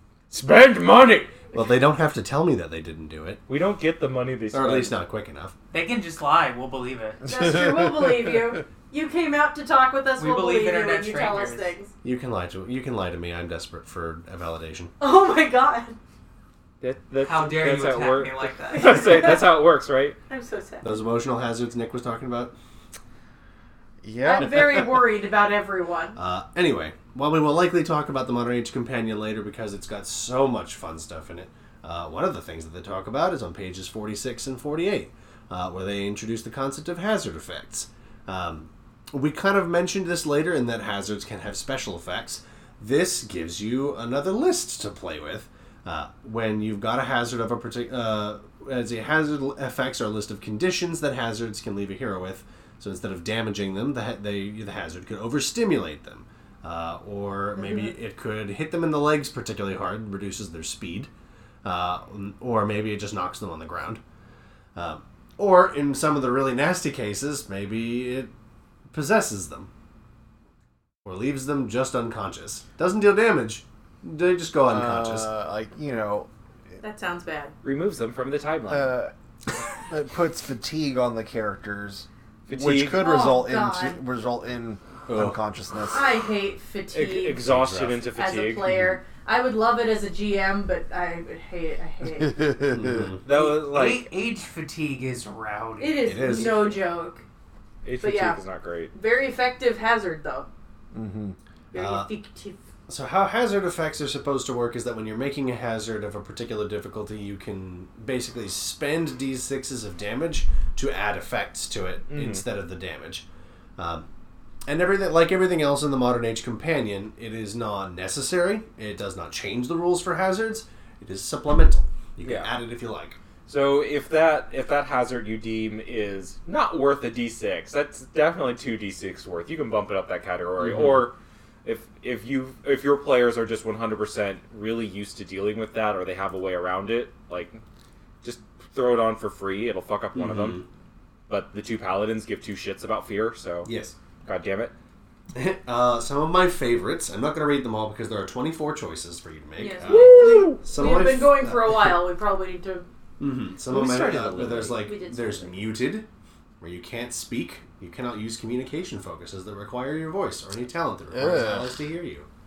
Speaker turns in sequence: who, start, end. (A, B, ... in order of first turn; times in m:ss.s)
0:00.3-0:01.4 A
0:01.5-0:03.4 B
0:03.5-0:05.0 A
0:04.5-0:05.5 B
0:05.7-0:07.3 C
0:07.2-0:11.9 D
0:10.2-0:11.7 C
0:12.0-0:14.9 B
0:15.0-0:16.0 D
0:16.8-0:20.2 A
0:17.2-0:19.2 C
0:18.8-0:19.5 D
0:20.3-0:21.0 D
0:20.8-0:22.6 B
0:24.0-0:25.0 E
0:24.2-0:26.2 D
0:26.2-1:01.1 B
1:01.6-1:04.0 B
1:04.8-1:08.3 B
1:08.9-1:09.7 B
1:11.0-1:15.3 B
1:14.7-1:16.3 E
1:16.8-1:17.6 D
1:17.6-1:19.0 A
1:18.7-1:19.1 E
1:19.8-1:26.0 E
1:22.5-1:23.0 A
1:22.9-1:24.0 D
1:25.1-1:25.4 B
1:25.9-1:27.4 D
1:26.9-1:28.7 A
1:27.4-1:28.0 B
1:28.2-1:32.6 D
1:28.7-1:29.0 B
1:32.3-1:33.1 E
1:32.7-1:33.2 B
1:33.2-1:34.1 A
1:33.3-1:36.2 C
1:35.8-1:37.2 D
1:36.0-1:36.7 B
1:37.8-1:38.9 A
1:38.0-1:38.4 D
1:38.9-1:40.5 D
1:40.9-1:41.4 E
1:41.7-1:42.6 D
1:41.8-1:42.1 B
1:42.9-1:53.3 B
1:52.1-1:52.4 A
1:53.8-1:54.1 B
1:54.7-2:03.2 B
2:02.2-2:02.5 A
2:03.5-2:17.6 A
2:10.6-2:11.1 B
2:18.2-2:20.6 A
2:20.2-2:20.7 B
2:21.3-2:23.7 A
2:23.6-2:24.0 B
2:24.3-2:24.7 A
2:25.3-2:32.0 B
2:29.6-2:32.9 D
2:29.9-2:30.6 A
2:33.2-2:36.1 B
2:33.7-2:34.8 A
2:34.8-2:35.6 D
2:36.6-2:42.3 B
2:41.1-2:41.7 E